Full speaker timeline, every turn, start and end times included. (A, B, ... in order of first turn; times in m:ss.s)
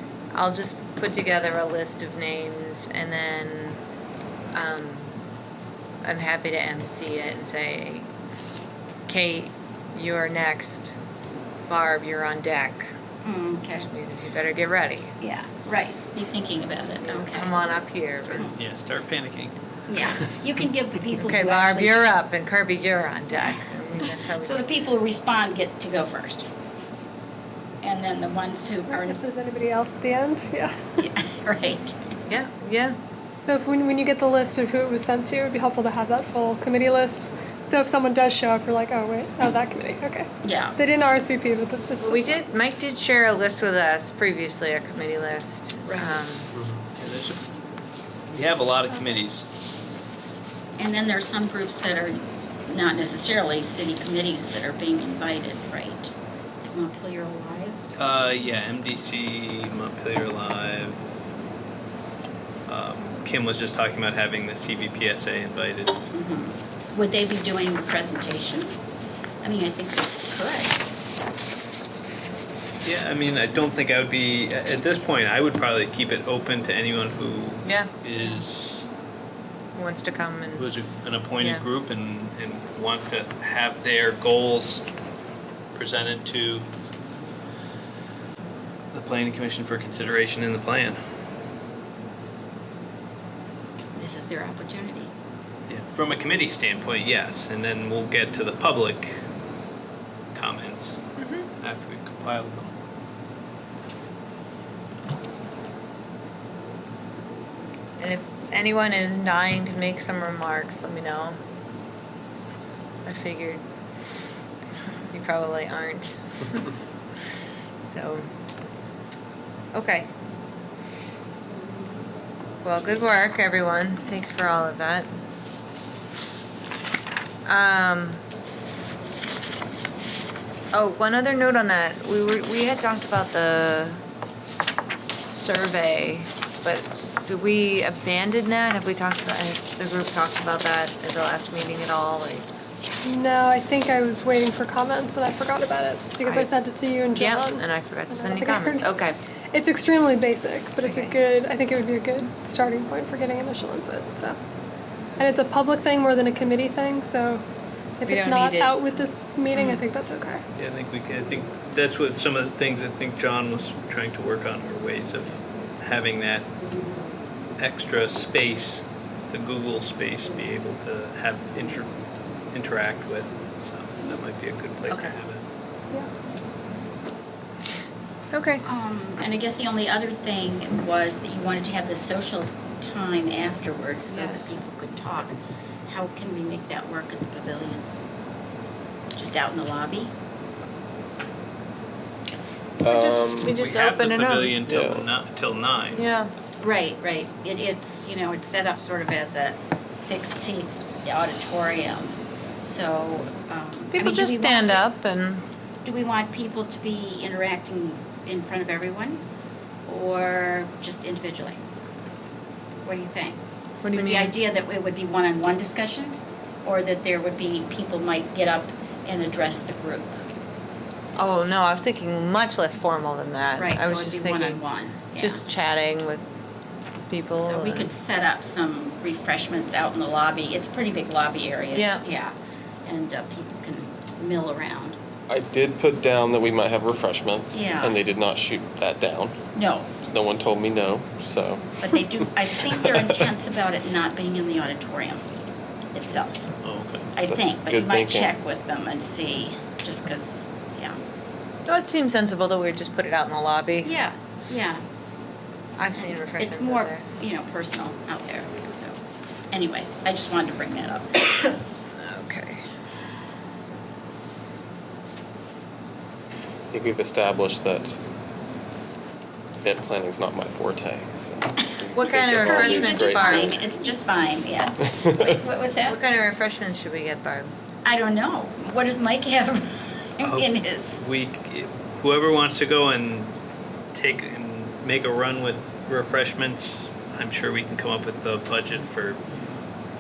0:00.3-0:03.8 A
0:04.5-0:05.1 A
0:06.0-0:08.1 A
0:09.1-0:11.0 A
0:11.7-0:12.9 A
0:13.2-0:13.9 B
0:13.8-0:15.1 A
0:15.2-0:17.6 B
0:17.0-0:18.5 A
0:18.3-0:18.6 B
0:18.6-0:19.6 C
0:19.9-0:22.1 B
0:21.2-0:24.7 A
0:24.0-0:26.5 B
0:27.8-0:29.2 B
0:28.9-0:31.1 D
0:31.0-0:32.0 B
0:32.3-0:33.0 A
0:33.4-0:42.4 D
0:40.4-0:40.8 B
0:42.0-0:46.5 A
0:45.9-0:46.4 B
0:46.5-0:47.4 C
0:48.3-0:49.4 C
0:50.8-0:56.1 B
0:56.7-0:57.8 B
0:58.0-1:01.0 C
1:02.7-1:06.0 C
1:06.1-1:08.7 B
1:09.4-1:10.8 B
1:12.8-1:18.9 C
1:17.6-1:17.9 A
1:19.8-1:20.7 A
1:20.6-1:24.8 C
1:25.7-1:26.7 C
1:28.9-1:31.0 C
1:34.0-1:35.1 B
1:35.7-1:39.2 C
1:40.3-1:41.1 C
1:41.2-1:41.5 A
1:41.6-1:42.8 C
1:48.0-1:51.4 A
1:53.0-1:53.6 A
1:55.1-1:56.2 A
1:57.8-1:58.3 A
1:59.7-2:00.1 A
2:02.6-2:05.1 A
2:07.5-2:08.2 A
2:10.7-2:14.0 A
2:15.2-2:22.5 A
2:23.0-2:28.9 D
2:27.1-2:29.2 A
2:29.5-2:34.4 D
2:30.8-2:31.2 A
2:35.2-2:37.4 D
2:38.0-2:40.4 D
2:38.0-2:38.8 A
2:40.6-2:46.5 C
2:47.6-2:51.9 C
2:52.5-2:55.4 C
2:58.3-2:58.6 A
2:58.7-3:05.4 B
3:04.1-3:04.6 A
3:05.9-3:07.9 B
3:09.2-3:10.1 B
3:12.8-3:13.6 E
3:12.9-3:14.6 A
3:13.5-3:16.1 C
3:14.6-3:15.1 E
3:15.9-3:16.3 A
3:16.6-3:24.8 B
3:23.9-3:25.4 A
3:25.8-3:29.2 B
3:29.9-3:31.6 B
3:32.8-3:40.3 B
3:33.8-3:34.4 A
3:41.2-3:44.6 A
3:43.6-3:45.4 B
3:45.2-3:46.2 A
3:47.1-3:47.9 A
3:47.3-3:52.3 B
3:51.7-3:52.0 A
3:52.9-3:55.0 B
3:55.3-3:59.4 E
3:57.5-3:58.0 B
3:59.6-3:59.9 B
3:59.9-4:01.7 E
4:01.8-4:05.2 B
4:05.9-4:06.5 B
4:06.6-4:07.1 C
4:07.2-4:11.0 B
4:07.3-4:08.4 E
4:11.7-4:14.0 A
4:13.8-4:14.8 B
4:15.8-4:17.1 A
4:16.0-4:19.0 B
4:19.5-4:21.6 B
4:22.0-4:22.6 A
4:26.7-4:28.0 E
4:29.6-4:33.7 E
4:31.9-4:33.8 A
4:32.1-4:36.0 B
4:35.8-4:37.5 A
4:37.8-4:41.0 B
4:40.2-4:43.3 C
4:43.9-4:49.2 C